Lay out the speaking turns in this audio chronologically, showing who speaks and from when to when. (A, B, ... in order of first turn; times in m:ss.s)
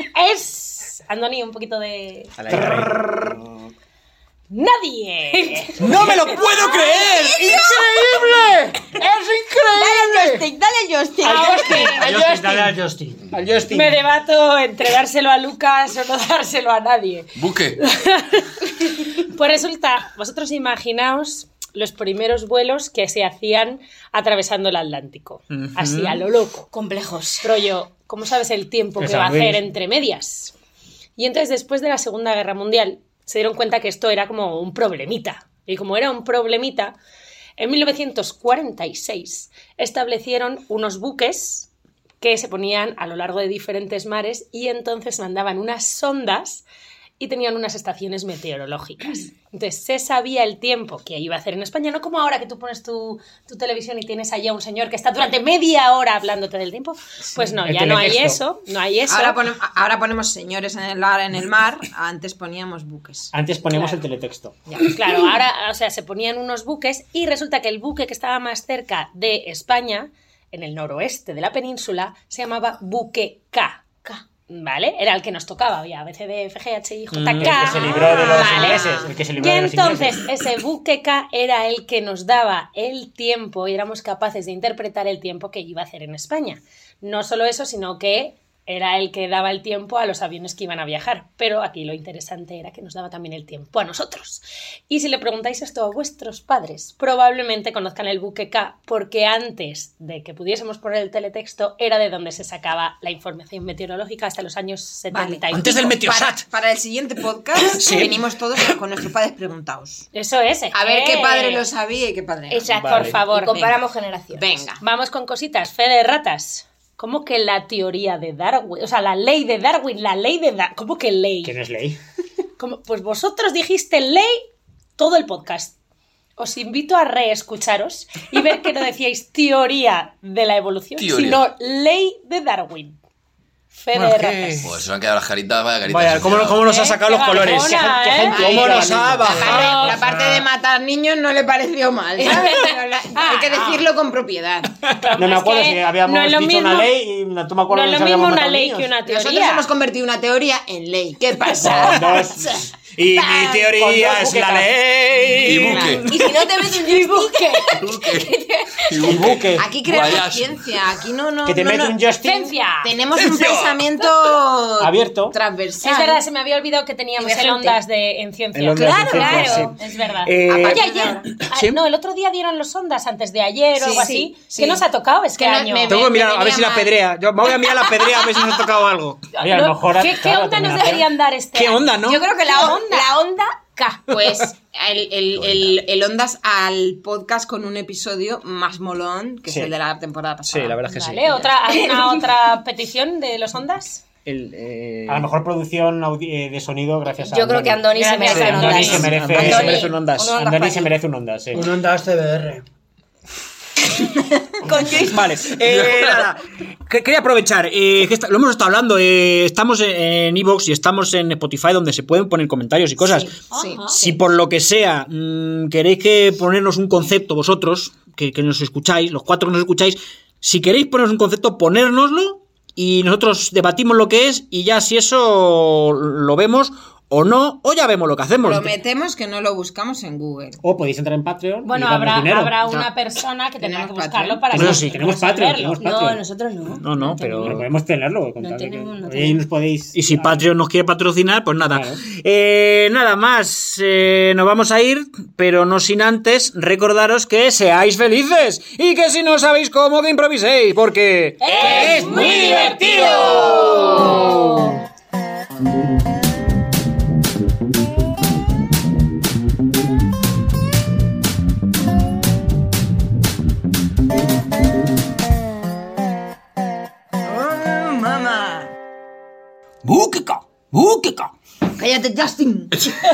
0:00.1-0:02.3 A
0:02.4-0:03.5 B
0:04.5-0:06.3 A
0:05.8-0:10.4 B
0:06.5-0:08.2 C
0:09.7-0:12.0 C
0:11.2-0:12.1 A
0:11.2-0:12.8 D
0:12.0-0:13.2 E
0:13.3-0:14.0 D
0:13.7-0:26.7 A
0:17.4-0:17.8 F
0:25.5-0:26.2 B
0:26.7-0:27.4 C
0:27.4-0:30.5 A
0:29.0-0:29.5 B
0:31.2-0:37.0 A
0:37.6-0:41.7 A
0:42.2-0:46.6 A
0:47.2-0:59.4 A
0:57.3-0:58.4 D
0:59.1-1:03.3 G
1:03.3-1:04.6 D
1:03.7-1:04.0 A
1:04.8-1:13.8 A
1:14.5-1:45.9 A
1:17.1-1:17.8 B
1:17.4-1:20.3 D
1:18.0-1:19.0 G
1:45.1-1:50.0 G
1:45.5-1:46.4 B
1:47.8-1:48.2 B
1:50.1-1:51.6 A
1:50.7-1:54.8 G
1:52.5-1:54.4 C
1:52.8-1:53.1 B
1:52.9-1:53.5 A
1:54.8-2:01.5 A
2:01.4-2:02.0 D
2:02.6-2:04.4 A
2:05.0-2:05.7 A
2:06.4-2:13.0 A
2:11.0-2:11.4 F
2:13.7-2:14.7 A
2:13.9-2:14.7 B
2:14.6-2:16.6 F
2:15.9-2:17.8 B
2:16.6-2:18.5 A
2:17.4-2:19.4 D
2:18.2-2:24.7 G
2:18.3-2:20.0 B
2:19.4-2:20.0 A
2:20.0-2:20.4 D
2:22.4-2:23.8 A
2:25.0-2:26.9 A
2:25.2-2:28.9 D
2:27.7-2:29.7 A
2:29.0-2:32.2 G
2:31.6-2:32.2 B
2:31.6-2:32.6 D
2:32.9-2:36.2 B
2:33.1-2:33.7 G
2:33.7-2:34.7 D
2:35.4-2:36.0 F
2:35.7-2:35.9 G
2:36.0-2:39.3 C
2:36.2-2:37.7 A
2:37.7-2:40.6 F
2:39.0-2:39.7 D
2:39.5-2:46.2 G
2:41.4-2:42.5 D
2:42.2-2:42.9 A
2:43.2-2:43.8 F
2:44.8-2:45.3 D
2:45.8-2:55.9 A
2:47.2-2:47.8 C
2:48.5-2:51.8 B
2:48.8-2:49.8 C
2:50.4-2:51.3 G
2:53.7-2:54.8 G
2:54.0-2:54.3 C
2:55.4-2:58.0 G
2:55.9-2:59.3 B
2:59.4-3:03.2 A
2:59.4-3:01.1 D
3:01.5-3:02.2 B
3:02.0-3:04.2 C
3:04.1-3:10.9 G
3:05.3-3:05.8 F
3:10.4-3:11.5 B
3:10.9-3:14.0 A
3:11.7-3:12.2 C
3:14.2-3:15.3 B
3:15.1-3:21.7 D
3:17.2-3:20.9 C
3:18.2-3:19.1 A
3:18.2-3:20.3 B
3:21.5-3:22.6 E
3:23.9-3:25.3 C
3:25.0-3:33.3 B
3:33.5-3:34.0 C
3:33.5-3:34.1 G
3:34.0-3:48.8 B
3:48.4-3:50.6 G
3:50.6-3:52.6 D
3:51.6-3:55.9 A
3:53.6-3:54.7 G
3:54.5-3:56.2 D
3:54.5-3:54.9 B
3:55.8-3:56.9 C
3:56.8-3:57.6 B
3:56.9-3:57.6 A
3:57.4-4:00.4 D
3:58.4-3:59.4 C
3:59.9-4:14.3 B
4:01.6-4:02.0 D
4:11.4-4:14.4 A
4:11.7-4:12.4 C
4:13.3-4:14.3 C
4:27.2-4:28.7 G
4:29.8-4:31.2 B
4:31.8-4:32.8 G